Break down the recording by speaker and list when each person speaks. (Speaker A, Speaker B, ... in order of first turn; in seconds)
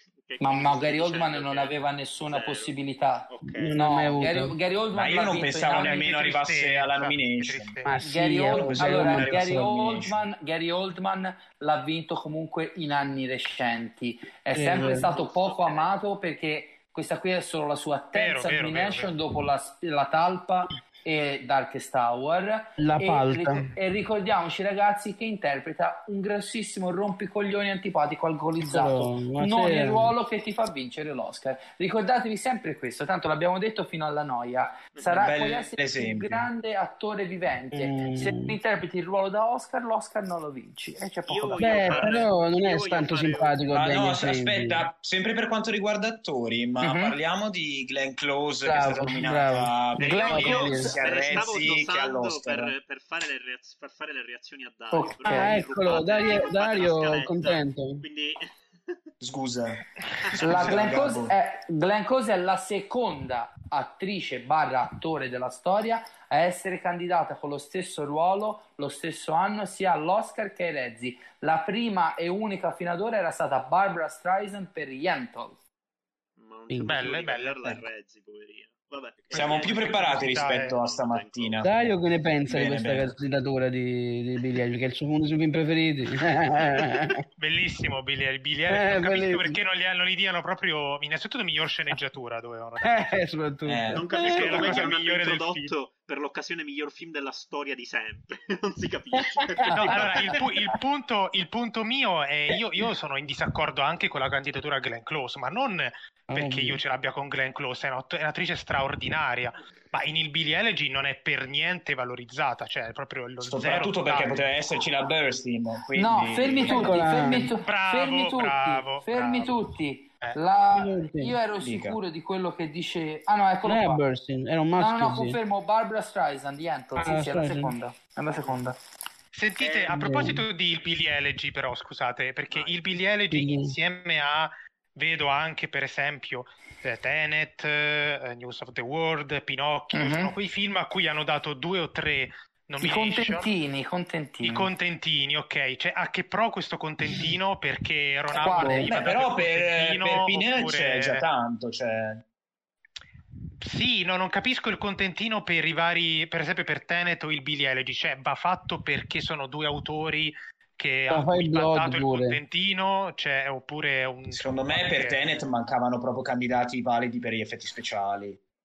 Speaker A: 0.2-2.7, 3.3-3.8, 14.7-15.9, 34.9-35.3, 41.2-43.6, 50.0-59.0, 60.2-60.7, 76.4-81.9, 93.9-100.4, 129.6-129.9, 132.5-132.8
Speaker B: 0.4-6.1, 8.0-42.2, 46.8-47.1, 50.0-51.0, 54.9-55.6, 60.4-75.6, 115.9-124.0, 124.8-128.8, 139.9-140.3, 142.8-144.7, 148.3-149.0
Speaker C: 3.6-4.5, 7.8-9.8, 14.5-15.1, 22.8-23.7, 28.6-30.1, 37.7-38.5, 41.6-44.9, 48.6-51.0, 55.2-58.0, 76.7-77.0, 81.6-87.2, 88.7-89.6, 92.8-94.8, 99.2-100.6, 106.3-106.8, 116.6-117.5, 120.7-121.3, 123.6-125.4, 127.0-127.7, 129.9-130.4, 133.3-133.7, 161.1-162.4
Speaker D: 4.9-7.8, 8.4-10.2, 35.1-36.5, 43.7-52.7, 59.2-61.3, 79.3-81.7, 82.5-83.1, 93.7-94.1, 113.4-116.9, 121.5-122.0, 148.3-152.2, 164.3-168.4
Speaker E: 5.6-7.9, 18.1-19.1, 76.8-77.8, 79.3-80.8, 87.4-93.1, 94.2-95.7, 99.8-114.5, 117.4-119.6, 129.3-143.5, 144.4-151.2, 153.6-165.2